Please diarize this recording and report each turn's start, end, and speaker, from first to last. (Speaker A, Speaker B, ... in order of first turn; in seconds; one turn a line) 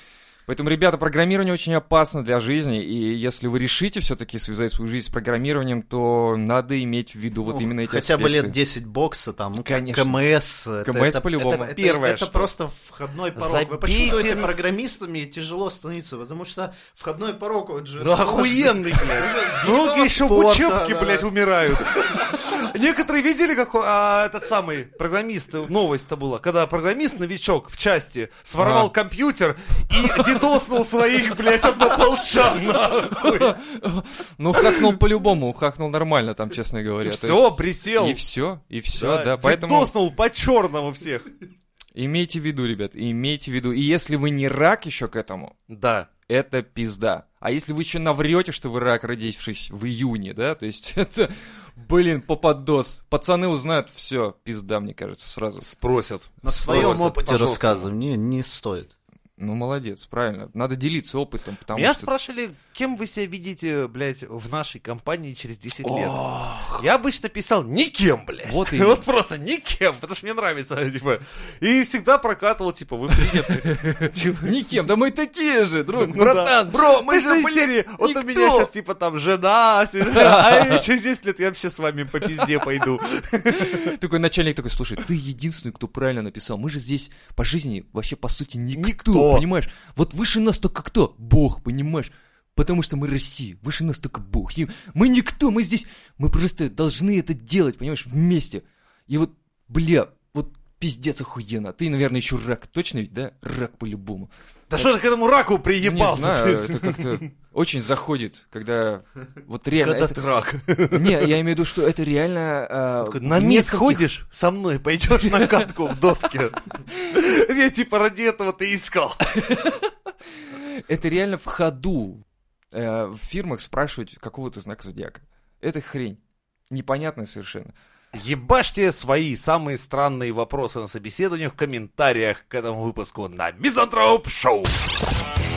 Speaker A: 0.5-8.6
Speaker B: 7.5-21.3
Speaker A: 9.6-10.2
Speaker A: 10.8-11.7
Speaker C: 11.4-12.5
Speaker C: 13.3-14.5
Speaker C: 18.0-33.6
Speaker A: 28.6-28.9
Speaker A: 29.9-30.4
Speaker A: 33.1-39.9
Speaker C: 34.6-34.9
Speaker C: 37.0-38.2
Speaker C: 39.0-41.3
Speaker A: 42.0-45.5
Speaker C: 45.7-46.1
Speaker A: 46.3-55.7
Speaker C: 55.6-57.9
Speaker B: 56.4-58.9
Speaker A: 56.5-57.0
Speaker A: 59.4-62.1
Speaker C: 61.7-66.2
Speaker A: 65.8-66.8
Speaker C: 66.7-74.6
Speaker A: 68.5-69.0
Speaker A: 73.5-78.7
Speaker C: 76.0-83.9
Speaker A: 80.1-80.8
Speaker A: 82.3-82.6
Speaker A: 83.5-105.0
Speaker C: 88.8-89.5
Speaker C: 104.7-107.2
Speaker A: 105.8-110.2
Speaker C: 109.8-111.3
Speaker A: 110.9-114.0
Speaker C: 113.0-119.2
Speaker A: 115.2-115.7
Speaker A: 119.3-119.9
Speaker A: 120.5-127.7
Speaker C: 128.1-134.7